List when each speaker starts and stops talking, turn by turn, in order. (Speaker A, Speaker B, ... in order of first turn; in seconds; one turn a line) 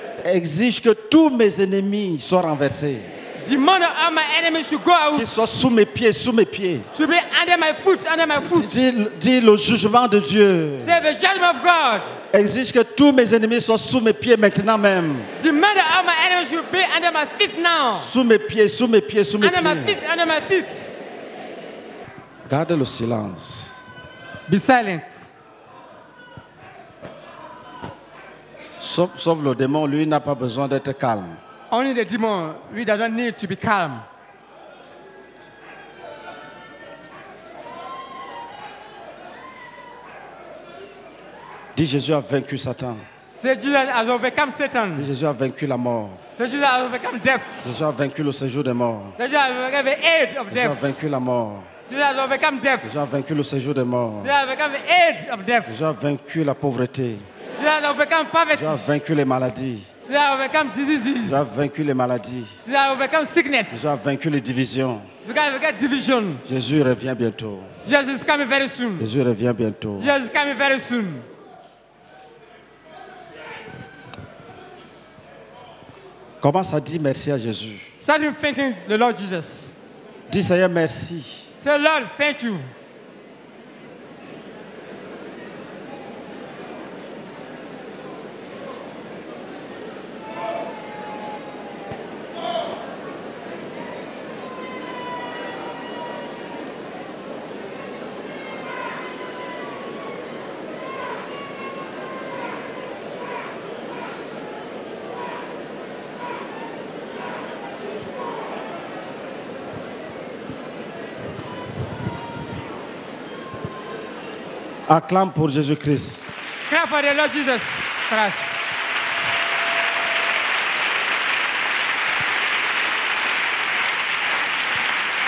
Speaker A: 0.2-3.1
Speaker B: 3.4-5.5
Speaker A: 5.1-6.9
Speaker B: 6.9-8.8
Speaker A: 8.3-11.0
Speaker B: 10.8-12.1
Speaker A: 12.3-15.3
Speaker B: 15.4-18.1
Speaker A: 17.9-20.0
Speaker B: 19.4-20.9
Speaker A: 22.5-23.8
Speaker B: 24.5-25.3
Speaker A: 28.8-31.4
Speaker B: 31.7-34.1
Speaker A: 41.8-43.0
Speaker B: 43.4-45.1
Speaker A: 45.0-46.2
Speaker B: 46.4-47.7
Speaker A: 47.6-49.2
Speaker B: 49.2-50.8
Speaker A: 50.5-51.7
Speaker B: 51.9-53.0
Speaker A: 52.8-54.4
Speaker B: 54.2-55.8
Speaker A: 55.7-57.3
Speaker B: 57.6-58.9
Speaker A: 58.5-59.9
Speaker B: 60.1-61.5
Speaker A: 61.2-62.5
Speaker B: 62.7-64.0
Speaker A: 63.7-65.1
Speaker B: 65.3-66.4
Speaker A: 66.5-67.7
Speaker B: 67.9-69.1
Speaker A: 69.0-70.2
Speaker B: 70.0-71.2
Speaker A: 76.4-77.9
Speaker B: 78.0-79.7
Speaker A: 80.3-81.5
Speaker B: 81.6-82.7
Speaker A: 114.9-116.2
Speaker B: 116.7-118.5